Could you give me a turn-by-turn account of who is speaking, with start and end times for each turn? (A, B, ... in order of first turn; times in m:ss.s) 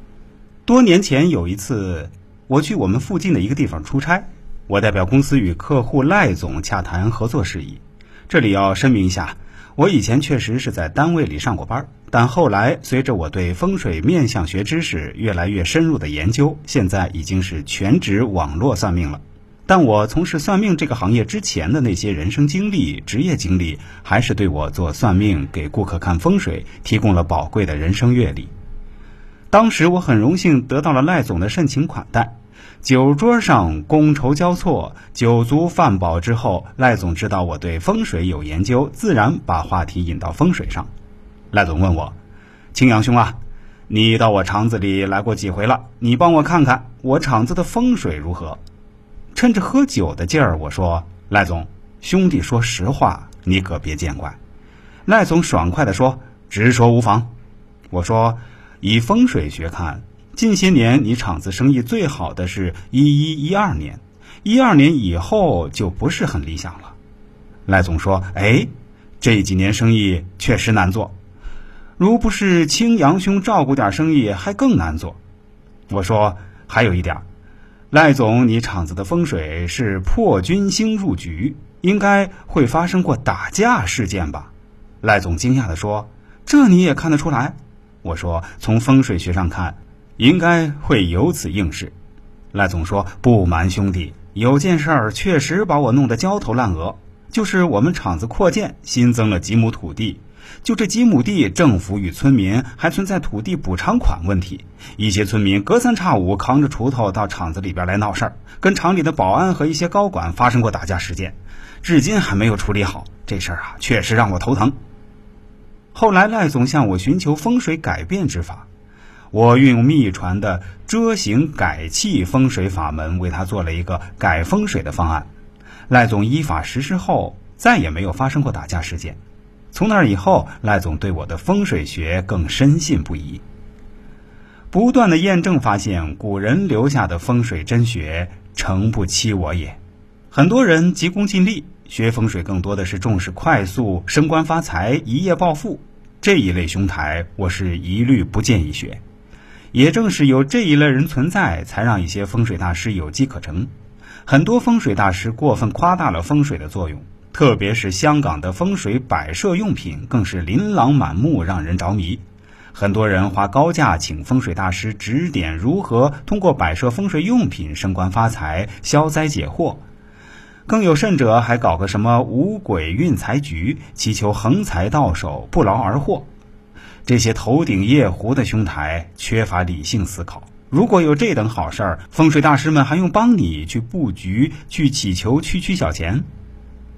0:00.6-0:28.5 A
0:29.5-0:40.9 A
0:41.5-0:42.1 A
0:42.7-0:43.4 A
0:43.9-0:48.6 A
0:49.3-0:54.4 A
0:55.1-0:57.3 A
0:57.9-1:06.9 A
1:07.7-1:08.7 A
1:09.2-1:11.1 A
1:12.0-1:15.2 A
1:15.9-1:17.2 A
1:17.9-1:24.5 A
1:25.0-1:31.9 A
1:32.5-1:54.7 A
1:55.9-1:58.6 A
1:59.3-2:05.3 A
2:05.9-2:09.2 A
2:09.7-2:13.4 A
2:14.7-2:19.8 A
2:20.3-2:29.0 A
2:29.7-2:33.7 A
2:34.2-2:42.2 A
2:42.7-2:49.8 A
2:50.7-2:56.3 A
2:57.0-3:06.2 A